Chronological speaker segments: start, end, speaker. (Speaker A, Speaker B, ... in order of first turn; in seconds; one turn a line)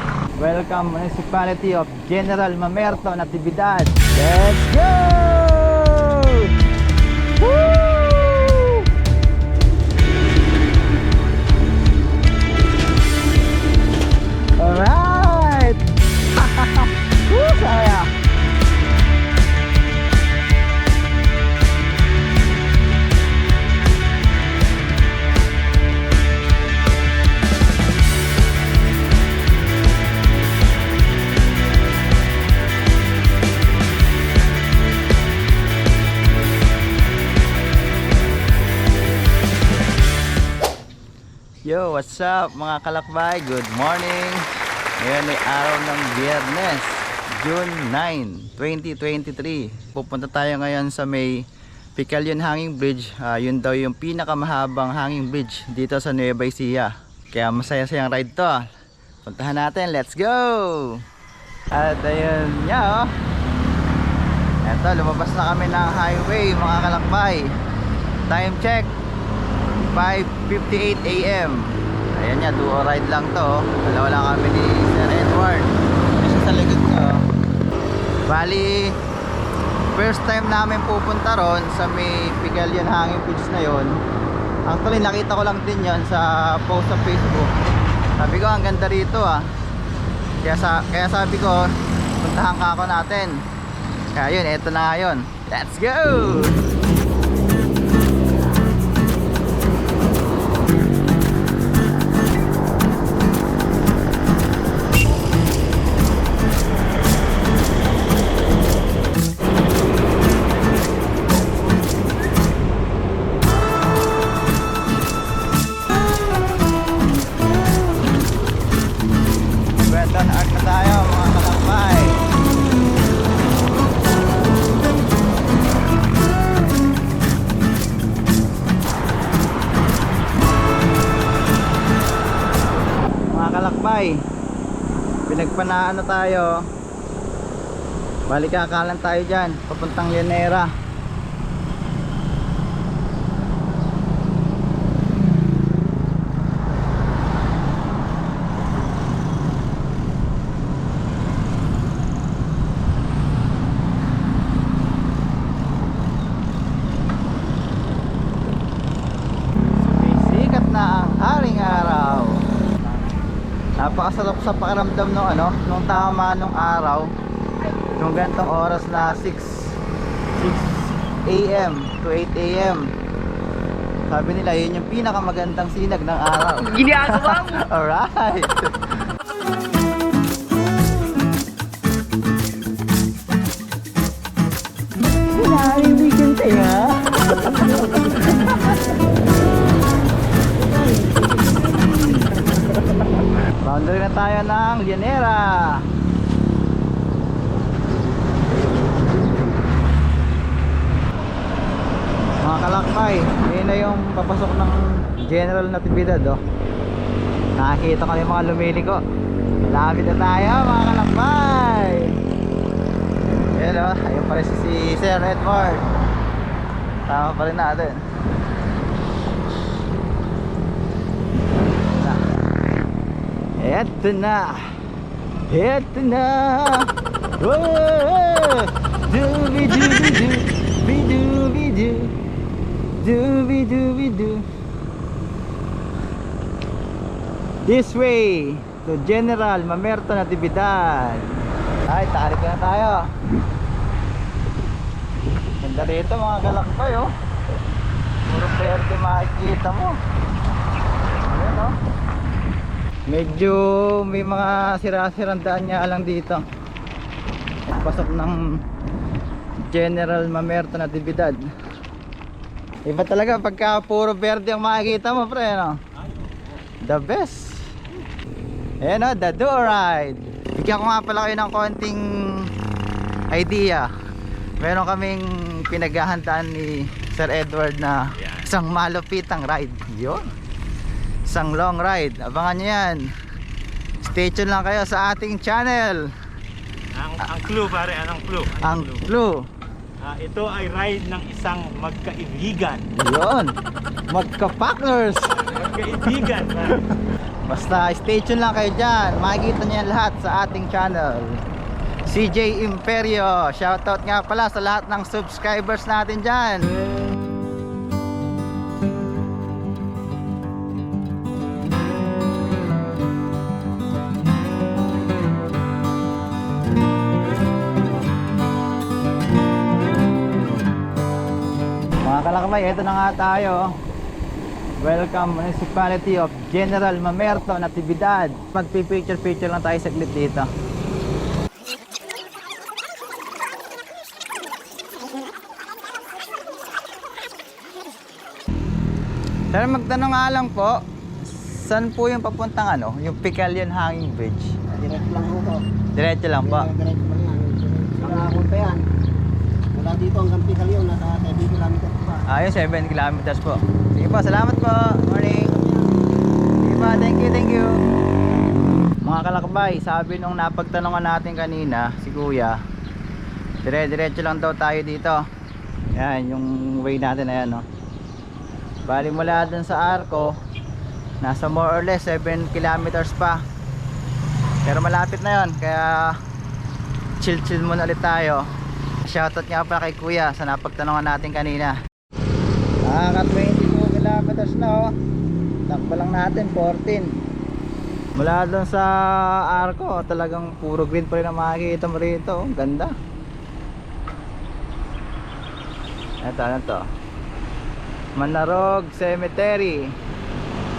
Speaker A: 0.4-6.5
Speaker A: 7.4-8.9
Speaker A: 14.6-15.8
Speaker A: 16.3-18.1
Speaker A: 41.6-44.4
Speaker A: 45.0-51.3
Speaker A: 52.0-58.6
Speaker A: 59.2-61.0
Speaker A: 61.7-63.1
Speaker A: 64.6-67.5
Speaker A: 68.3-68.9
Speaker A: 69.9-71.6
Speaker A: 72.2-77.2
Speaker A: 78.3-78.9
Speaker A: 79.9-83.9
Speaker A: 84.7-87.5
Speaker A: 88.2-89.4
Speaker A: 90.4-93.3
Speaker A: 94.1-96.6
Speaker A: 119.8-122.2
Speaker A: 133.3-134.2
Speaker A: 135.3-136.5
Speaker A: 138.3-140.7
Speaker A: 159.7-162.4
Speaker A: 163.8-167.1
Speaker A: 167.9-169.7
Speaker A: 170.4-172.9
Speaker A: 174.1-178.7
Speaker A: 185.3-188.8
Speaker A: 190.9-191.8
Speaker A: 193.6-195.8
Speaker A: 202.4-206.4
Speaker A: 207.6-209.0
Speaker A: 209.7-212.1
Speaker A: 213.5-215.9
Speaker A: 217.1-217.9
Speaker A: 223.6-224.6
Speaker A: 225.5-226.9
Speaker A: 227.4-232.1
Speaker A: 233.0-234.4
Speaker A: 237.6-241.3
Speaker A: 241.9-243.0
Speaker A: 245.6-247.1
Speaker A: 248.2-249.9
Speaker A: 251.3-251.7
Speaker A: 253.1-256.4
Speaker A: 257.7-258.4
Speaker A: 259.7-261.4
Speaker A: 262.9-265.8
Speaker B: 266.0-266.6
Speaker A: 266.8-267.7
Speaker A: 268.8-272.5
Speaker A: 273.3-273.9
Speaker A: 274.6-280.3
Speaker B: 278.2-278.5
Speaker A: 281.3-283.0
Speaker A: 284.0-286.0
Speaker B: 286.9-289.0
Speaker A: 288.6-289.4
Speaker B: 290.0-292.9
Speaker A: 292.9-293.5
Speaker A: 294.1-295.4
Speaker B: 295.4-296.8
Speaker A: 296.2-301.4
Speaker A: 302.1-306.7
Speaker A: 322.0-323.6
Speaker A: 324.8-330.5
Speaker A: 339.5-344.6
Speaker C: 344.9-345.6
Speaker A: 345.9-346.7
Speaker C: 346.8-348.8
Speaker A: 348.0-348.7
Speaker C: 349.7-352.2
Speaker A: 352.2-355.6
Speaker A: 356.6-357.7
Speaker A: 359.0-362.6
Speaker A: 363.6-365.2
Speaker A: 365.9-367.6
Speaker A: 368.9-370.3
Speaker A: 371.2-373.4
Speaker A: 374.6-376.2
Speaker A: 377.2-378.4
Speaker A: 379.0-381.7
Speaker A: 382.8-384.9
Speaker A: 385.7-387.1
Speaker A: 388.1-392.9
Speaker A: 396.2-396.8
Speaker A: 398.2-399.9